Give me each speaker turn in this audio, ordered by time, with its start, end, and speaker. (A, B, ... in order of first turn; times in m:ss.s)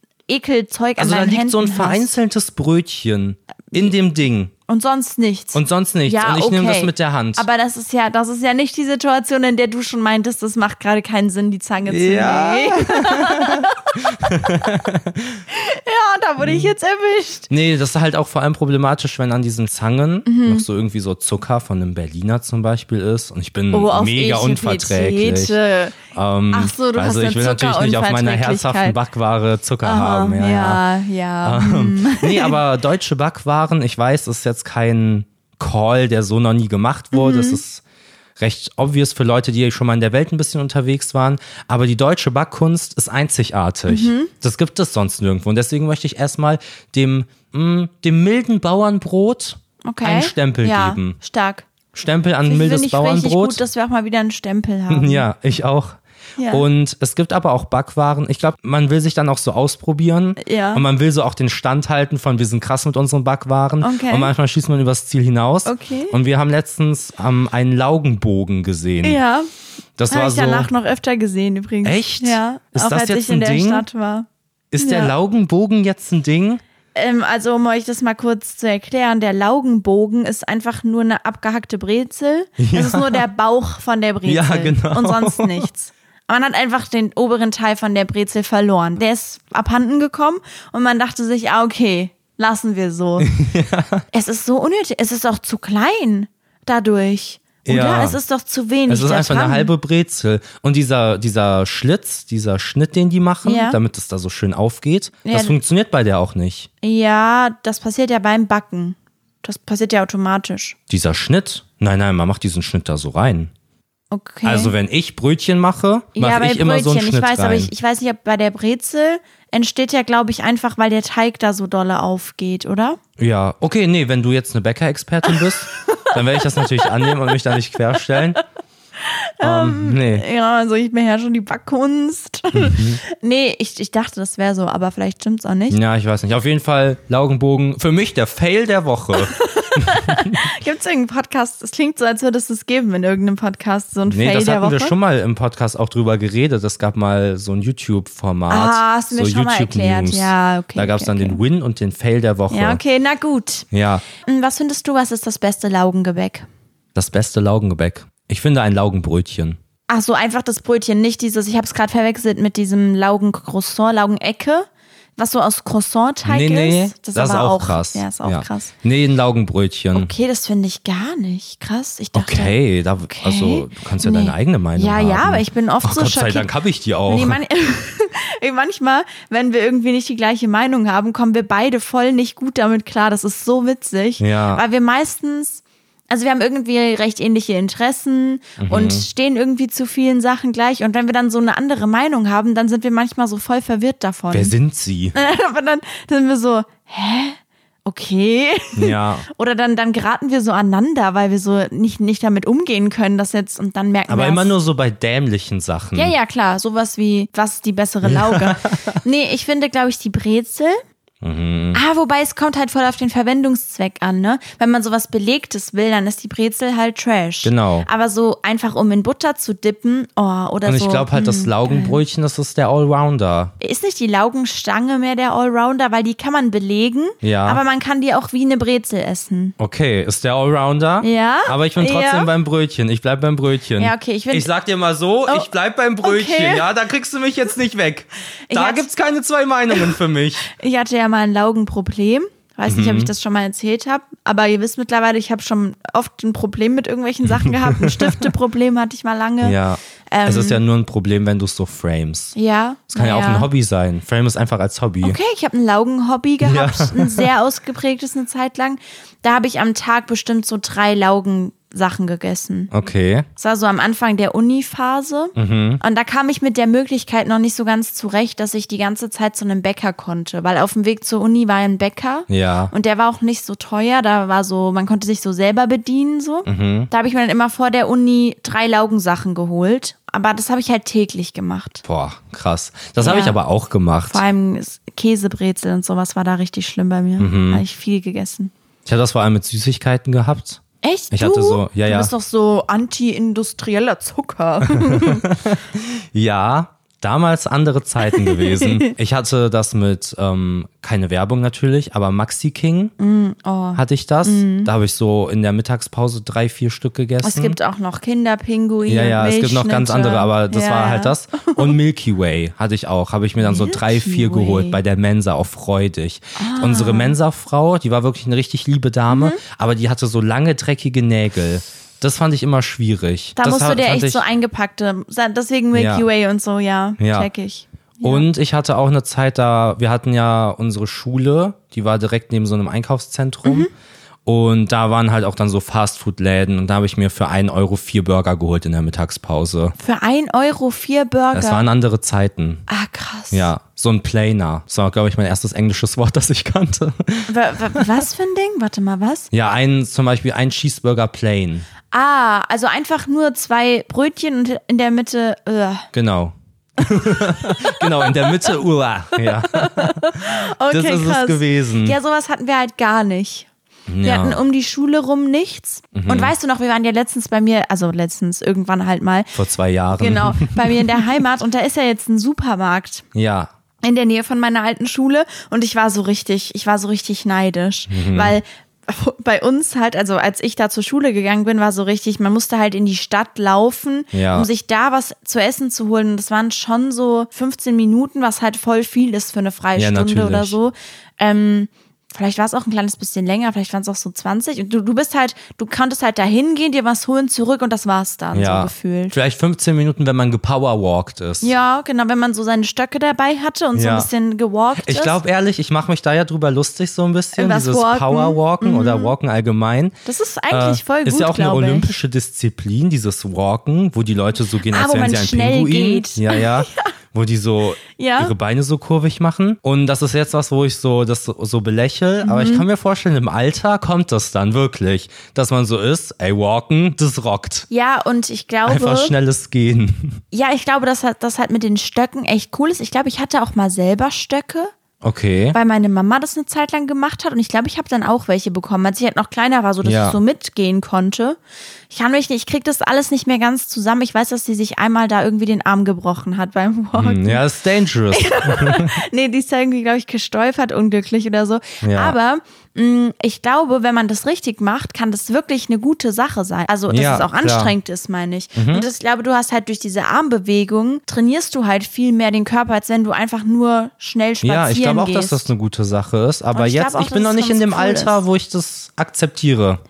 0:00.3-0:02.1 A
0:01.0-0:04.5 B
0:04.7-0:14.1 A
0:05.5-0:07.5 B
0:11.9-0:15.4 B
0:15.5-0:17.5 A
0:16.4-0:16.7 B
0:17.5-0:25.6 B
0:20.3-0:20.7 A
0:23.7-0:26.0 A
0:26.1-0:30.8 B
0:26.5-0:29.0 A
0:29.8-0:32.6 A
0:31.4-0:37.8 B
0:37.1-0:37.6 A
0:38.4-0:51.2 B
0:43.9-0:44.3 A
0:49.8-0:51.7 A
0:51.9-0:53.6 B
0:52.5-0:55.3 A
0:54.9-1:09.2 B
0:56.4-0:56.7 A
1:00.4-1:00.8 A
1:03.8-1:04.3 A
1:05.7-1:06.2 A
1:09.0-1:09.5 A
1:10.0-1:10.7 B
1:10.1-1:15.1 A
1:11.8-1:13.8 B
1:14.7-1:16.6 B
1:17.0-1:33.3 A
1:22.6-1:23.3 B
1:24.3-1:25.7 B
1:33.2-1:34.0 B
1:34.1-1:39.7 A
1:37.6-1:38.2 B
1:38.9-1:46.7 B
1:43.4-1:43.8 A
1:45.2-1:45.6 A
1:46.8-1:50.8 A
1:50.9-1:53.5 B
1:54.1-1:54.7 A
1:54.4-1:57.7 B
1:56.2-2:03.0 A
2:03.2-2:08.4 B
2:05.3-2:07.2 A
2:09.0-2:15.8 A
2:09.4-2:10.2 B
2:12.5-2:13.0 B
2:15.7-2:20.5 B
2:19.3-2:25.0 A
2:24.1-2:32.8 B
2:28.5-2:31.4 A
2:32.5-2:36.5 A
2:33.7-2:34.0 B
2:37.0-2:39.6 B
2:39.9-2:48.7 A
2:46.3-2:50.1 B
2:49.9-2:52.6 A
2:52.1-2:57.4 B
2:53.1-2:56.5 A
2:57.1-3:14.5 A
3:04.2-3:04.6 B
3:08.6-3:09.1 B
3:14.3-3:15.2 B
3:15.1-3:24.5 A
3:18.8-3:19.3 B
3:24.1-3:26.2 B
3:26.0-3:30.8 A
3:28.0-3:29.0 B
3:31.2-3:31.8 B
3:31.7-3:42.0 A
3:37.4-3:37.9 B
3:40.6-3:43.5 B
3:43.6-3:49.6 A
3:47.2-3:47.6 B
3:49.6-4:00.5 B
3:51.0-3:52.3 A
3:53.8-3:54.5 A
3:56.0-3:56.7 A
3:58.5-3:58.9 A
3:59.7-4:00.0 A
4:00.5-4:09.6 A
4:02.7-4:03.1 B
4:07.3-4:08.3 B
4:09.4-4:12.4 B
4:10.1-4:10.6 A
4:12.4-4:13.5 A
4:12.9-4:15.2 B
4:15.0-4:22.7 A
4:16.4-4:17.3 B
4:22.7-4:23.3 B
4:23.4-4:41.8 A
4:25.4-4:25.8 B
4:32.3-4:32.7 B
4:36.5-4:36.9 B
4:41.8-4:44.2 B
4:43.0-4:43.4 A
4:44.1-4:48.5 A
4:47.2-4:47.6 B
4:48.9-4:52.1 B
4:50.8-4:55.2 A
4:54.6-5:02.9 B
4:58.1-4:58.9 A
5:03.0-5:04.7 A
5:03.8-5:07.6 B
5:07.2-5:11.8 A
5:08.9-5:24.2 B
5:13.4-5:14.8 A
5:16.4-5:17.2 A
5:19.1-5:19.4 A
5:23.4-5:28.3 A
5:25.7-5:26.1 B
5:27.0-5:27.3 B
5:28.0-5:33.7 B
5:33.4-5:33.7 A
5:34.3-5:39.8 B
5:39.8-5:41.7 A
5:41.3-5:42.7 B
5:42.7-5:43.5 A
5:43.3-5:47.9 B
5:47.3-5:49.3 A
5:49.3-5:51.7 B
5:51.9-5:55.9 A
5:55.9-6:02.0 B
5:56.8-5:58.6 A
5:59.2-6:03.5 A
6:03.9-6:04.4 B
6:04.0-6:09.4 A
6:05.9-6:06.3 B
6:09.4-6:11.1 B
6:09.9-6:13.0 A
6:13.2-6:13.5 B
6:13.8-6:39.2 A
6:17.9-6:18.4 B
6:24.1-6:24.5 B
6:29.8-6:30.6 B
6:38.3-6:41.5 B
6:41.4-6:45.2 A
6:43.8-6:44.1 B
6:44.8-6:50.0 B
6:47.4-6:49.2 A
6:50.1-6:51.9 A
6:50.5-7:07.7 B
6:54.7-6:56.9 A
6:57.9-6:58.3 A
7:02.2-7:02.7 A
7:07.7-7:09.1 A
7:08.7-7:10.2 B
7:10.3-7:14.7 A
7:15.0-7:15.6 B
7:15.5-7:21.4 A
7:19.8-7:20.2 B
7:21.9-7:27.4 A
7:27.0-7:29.0 B
7:28.1-7:45.5 A
7:31.8-7:32.2 B
7:36.9-7:37.7 B
7:38.6-7:38.9 B
7:44.4-7:49.8 B
7:46.5-7:48.2 A